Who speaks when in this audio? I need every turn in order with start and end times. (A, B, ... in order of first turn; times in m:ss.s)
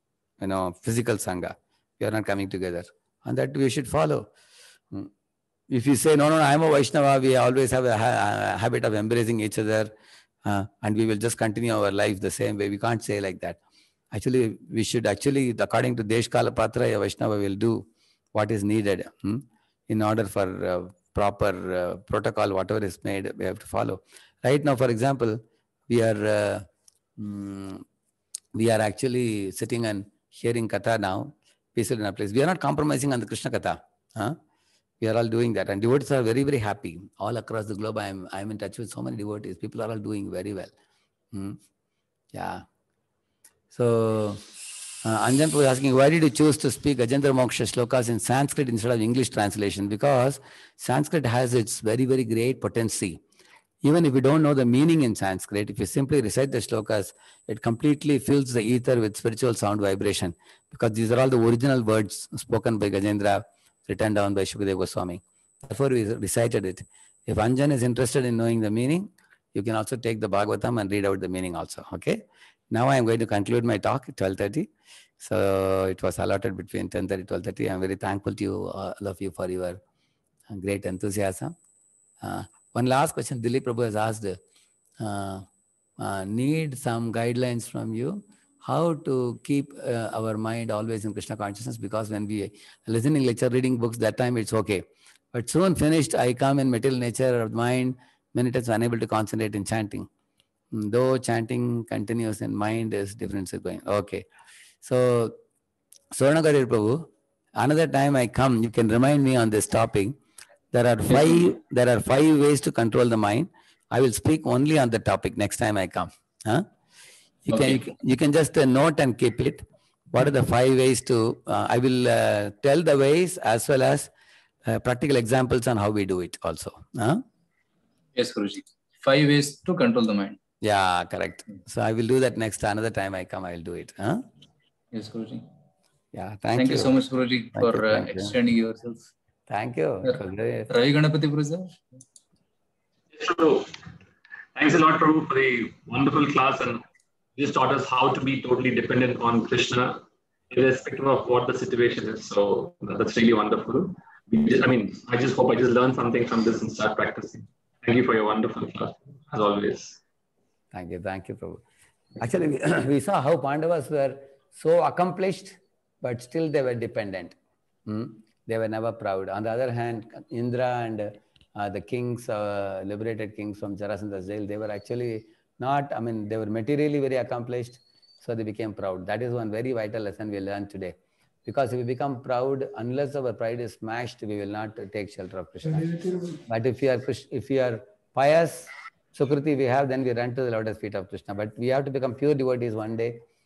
0:00.4-0:04.3 A
0:05.7-0:09.9 A
0:10.4-0:13.6 A
0:14.1-0:26.7 A
0:27.2-0:27.8 A
0:28.6-0:34.4 A
0:35.0-0:40.7 A
0:41.3-0:41.6 A
0:42.3-0:42.6 A
0:43.7-0:44.5 A
0:45.0-0:53.2 A
0:53.8-1:19.8 A
1:20.5-1:21.5 A
1:22.2-1:24.4 A
1:25.0-1:25.4 A
1:26.0-1:40.1 A
1:40.7-1:44.2 A
1:44.8-1:45.4 A
1:46.1-1:50.1 A
1:50.7-1:56.7 A
1:57.4-2:04.1 A
1:57.5-1:57.8 B
2:04.6-2:07.2 A
2:08.1-2:10.4 B
2:10.6-2:14.2 A
2:14.9-2:15.4 B
2:16.1-2:16.9 A
2:16.6-2:19.1 B
2:17.5-2:18.4 A
2:19.5-2:20.7 A
2:20.7-2:21.8 B
2:23.1-2:23.7 C
2:24.6-2:26.8 C
2:27.4-2:40.0 C
2:40.7-2:41.6 A
2:42.2-3:13.2 A